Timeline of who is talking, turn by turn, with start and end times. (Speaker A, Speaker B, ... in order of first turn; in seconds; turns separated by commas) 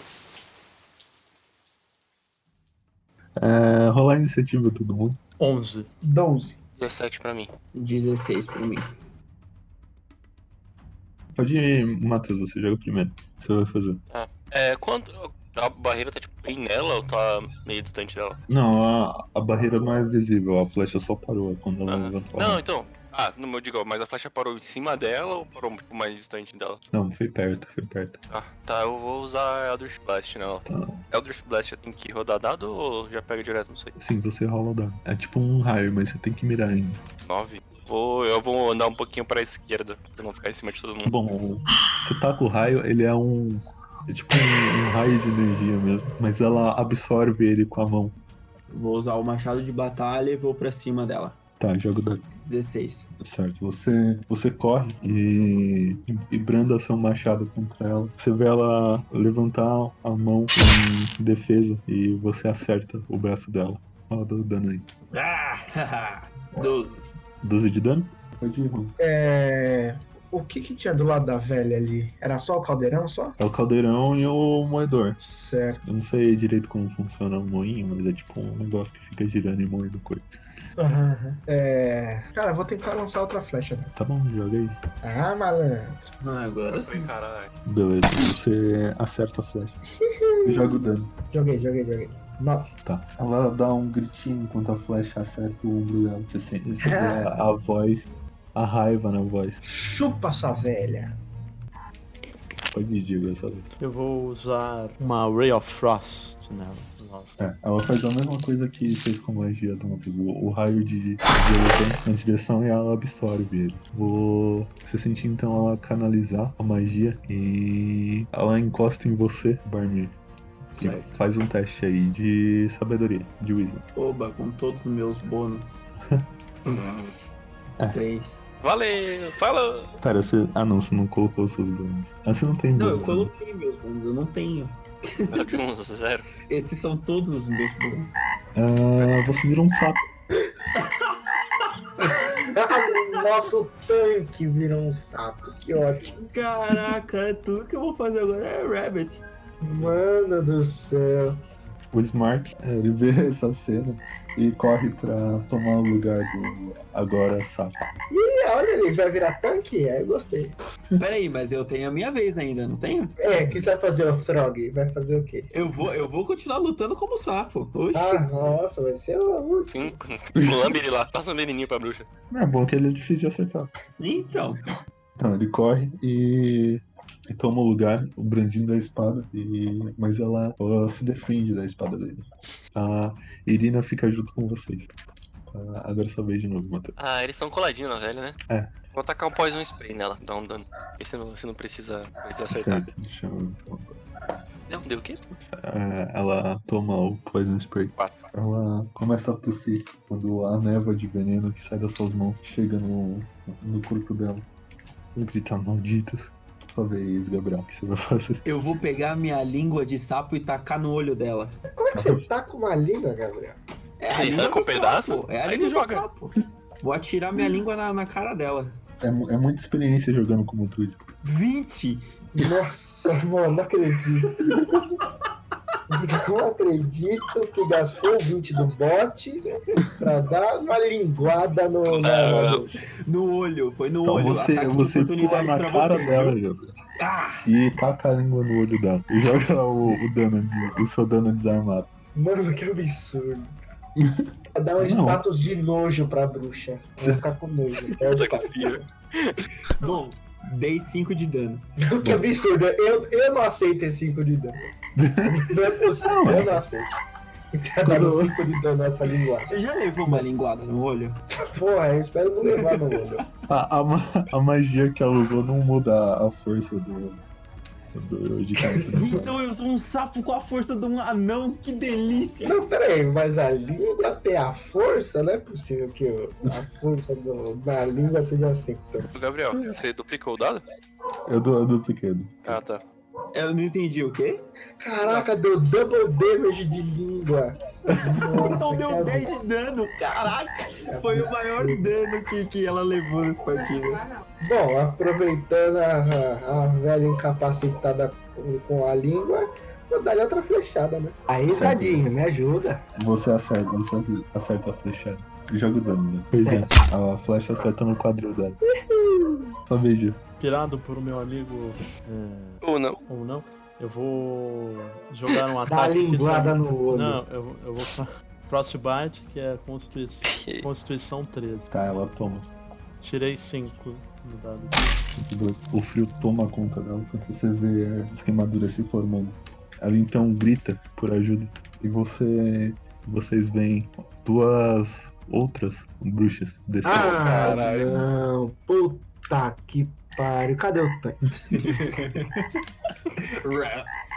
Speaker A: 3.4-5.2, Speaker B: 5.4-5.9, Speaker C: 6.0-6.6, Speaker D: 6.8-7.5, Speaker E: 7.7-8.9, Speaker A: 11.3-14.0, Speaker D: 14.1-18.4, Speaker A: 18.5-22.6, Speaker D: 21.9-26.8, Speaker A: 26.9-28.2, Speaker D: 28.3-33.9, Speaker A: 30.6-30.9, Speaker A: 34.0-37.0, Speaker D: 37.3-41.2, Speaker A: 41.0-48.1, Speaker E: 48.7-51.4, Speaker A: 51.6-52.2, Speaker E: 52.4-53.1, Speaker A: 53.2-64.8, Speaker E: 65.1-67.0, Speaker A: 67.4-69.0, Speaker C: 69.0-73.3, Speaker A: 73.4-75.2, Speaker C: 75.2-75.8, Speaker A: 75.8-80.3, Speaker C: 80.8-83.9, Speaker A: 84.0-84.8, Speaker C: 85.0-86.0, Speaker E: 86.2-87.1, Speaker D: 86.7-87.5, Speaker A: 87.7-89.8, Speaker C: 90.0-90.8, Speaker A: 90.4-91.1, Speaker C: 91.3-92.7, Speaker A: 92.8-99.6, Speaker C: 96.8-97.3, Speaker C: 99.6-101.1, Speaker A: 102.7-103.7, Speaker B: 103.8-107.3, Speaker A: 107.4-120.1, Speaker E: 120.7-121.2, Speaker A: 120.8-123.8, Speaker E: 124.0-125.9, Speaker E: 126.6-127.1, Speaker E: 127.9-128.5, Speaker D: 128.6-129.9, Speaker A: 130.0-133.3, Speaker E: 132.7-135.6, Speaker D: 135.3-136.3, Speaker E: 136.4-138.2, Speaker A: 138.6-140.0, Speaker E: 140.8-141.2, Speaker C: 142.4-146.1, Speaker E: 146.1-149.2, Speaker C: 149.6-151.4, Speaker A: 151.9-157.8, Speaker C: 158.1-160.6, Speaker E: 161.0-163.2, Speaker C: 163.2-165.5, Speaker A: 163.4-163.7, Speaker E: 165.5-168.3, Speaker C: 167.9-169.9, Speaker D: 169.7-172.1, Speaker A: 172.3-173.7, Speaker E: 174.0-174.7, Speaker A: 175.2-184.9, Speaker A: 185.5-186.9, Speaker D: 187.0-188.4, Speaker D: 188.9-192.8, Speaker A: 192.5-194.0, Speaker D: 194.7-195.2, Speaker A: 195.5-204.4, Speaker D: 198.0-198.2, Speaker A: 205.1-208.4, Speaker E: 208.4-211.6, Speaker C: 211.7-213.6, Speaker A: 211.9-212.2, Speaker E: 214.0-218.8, Speaker D: 214.1-216.0, Speaker A: 219.0-221.1, Speaker E: 221.2-222.0, Speaker C: 222.3-224.4, Speaker C: 225.9-232.7, Speaker D: 231.8-232.6, Speaker E: 233.0-236.4, Speaker A: 234.0-236.7, Speaker E: 237.0-237.5, Speaker A: 237.4-241.9, Speaker C: 242.1-243.5, Speaker A: 244.0-245.2, Speaker C: 244.5-248.8, Speaker D: 248.1-249.8, Speaker E: 249.8-251.6, Speaker C: 251.8-254.6, Speaker A: 252.0-252.3, Speaker A: 255.0-255.4, Speaker C: 255.2-256.9, Speaker A: 256.0-256.6, Speaker C: 257.5-259.5, Speaker A: 257.8-258.4, Speaker E: 259.4-261.2, Speaker C: 261.4-263.2, Speaker E: 262.4-263.2, Speaker A: 263.5-267.2, Speaker A: 267.9-269.4, Speaker E: 268.9-272.6, Speaker C: 272.4-279.1, Speaker D: 279.1-280.6, Speaker A: 281.3-282.6, Speaker D: 282.4-282.8, Speaker E: 283.3-284.4, Speaker C: 284.8-289.4, Speaker D: 285.0-285.3, Speaker E: 287.9-294.1, Speaker C: 290.9-291.9, Speaker C: 294.4-302.8, Speaker A: 301.5-302.1, Speaker A: 302.9-308.6, Speaker C: 306.4-306.8, Speaker C: 308.7-309.4, Speaker A: 309.6-310.2, Speaker B: 310.4-321.7, Speaker D: 312.6-313.0, Speaker C: 315.7-317.2, Speaker D: 320.2-320.7, Speaker A: 321.7-322.5, Speaker B: 323.0-325.0, Speaker A: 325.2-337.3, Speaker C: 336.8-341.2, Speaker D: 337.2-338.0, Speaker E: 341.4-342.4, Speaker E: 343.2-343.9